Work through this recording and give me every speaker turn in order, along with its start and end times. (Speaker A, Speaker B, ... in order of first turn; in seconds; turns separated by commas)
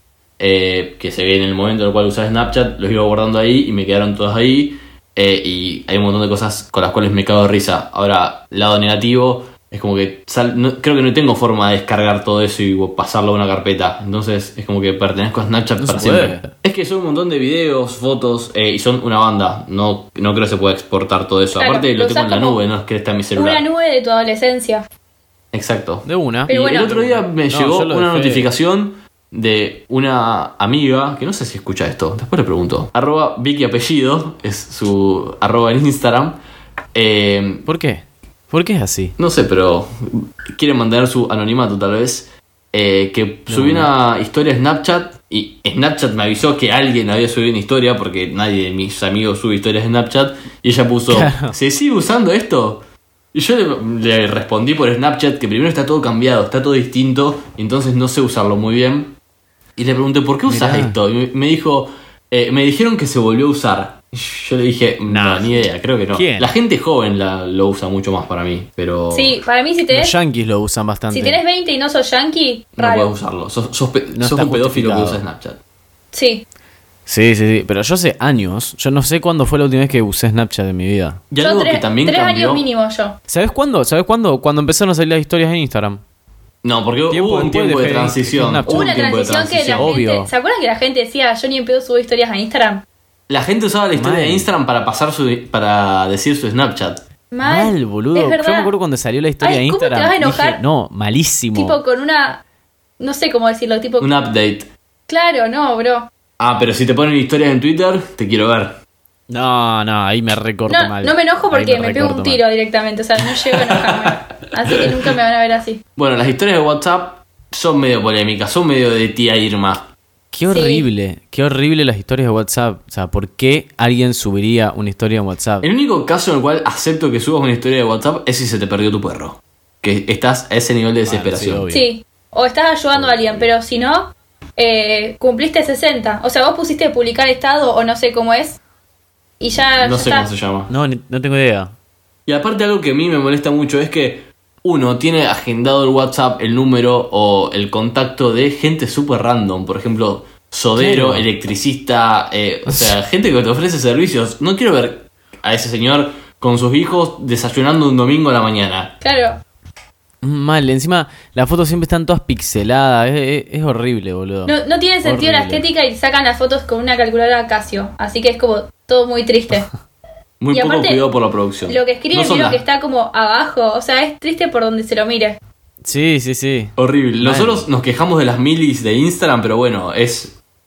Speaker A: 0.4-23.6, Speaker B: 15.8-16.5, Speaker C: 21.6-22.6, Speaker C: 23.3-24.9, Speaker A: 25.5-36.4, Speaker B: 26.0-28.5, Speaker C: 26.5-26.9, Speaker A: 36.9-37.7, Speaker B: 37.6-39.1, Speaker A: 39.2-52.8, Speaker B: 43.5-43.9, Speaker B: 51.1-51.5, Speaker A: 53.3-59.1, Speaker A: 59.8-69.4, Speaker B: 60.5-61.0, Speaker B: 65.0-66.5, Speaker C: 69.1-70.1, Speaker B: 69.9-71.4, Speaker C: 71.1-73.1, Speaker A: 72.8-75.6, Speaker B: 74.1-75.2, Speaker C: 76.1-76.4, Speaker B: 77.1-81.2, Speaker A: 81.3-82.6, Speaker C: 81.4-83.2, Speaker B: 83.3-86.0, Speaker A: 86.6-89.9, Speaker B: 87.1-89.0, Speaker C: 88.7-92.8, Speaker B: 89.7-90.3, Speaker A: 93.3-97.0, Speaker B: 94.0-94.5, Speaker C: 97.3-98.7, Speaker B: 97.4-101.8, Speaker C: 99.4-100.6, Speaker C: 101.5-102.4, Speaker C: 103.0-104.1, Speaker A: 104.0-104.7, Speaker C: 105.1-106.1, Speaker A: 106.4-108.8, Speaker B: 109.3-112.4, Speaker C: 110.7-115.8, Speaker A: 113.7-114.1, Speaker A: 116.0-119.9, Speaker B: 120.3-125.7, Speaker C: 120.5-120.8, Speaker A: 125.6-131.6, Speaker B: 131.0-131.9, Speaker C: 131.7-138.6, Speaker B: 132.9-133.4, Speaker C: 139.4-140.3, Speaker A: 139.7-140.7, Speaker B: 140.7-141.7, Speaker A: 142.2-158.9, Speaker B: 150.8-151.2, Speaker B: 152.7-152.9, Speaker C: 159.0-159.4, Speaker B: 160.2-165.6, Speaker C: 164.4-169.7, Speaker A: 170.4-172.6, Speaker C: 170.5-171.0, Speaker C: 171.7-175.4, Speaker B: 175.8-177.7, Speaker A: 176.8-180.4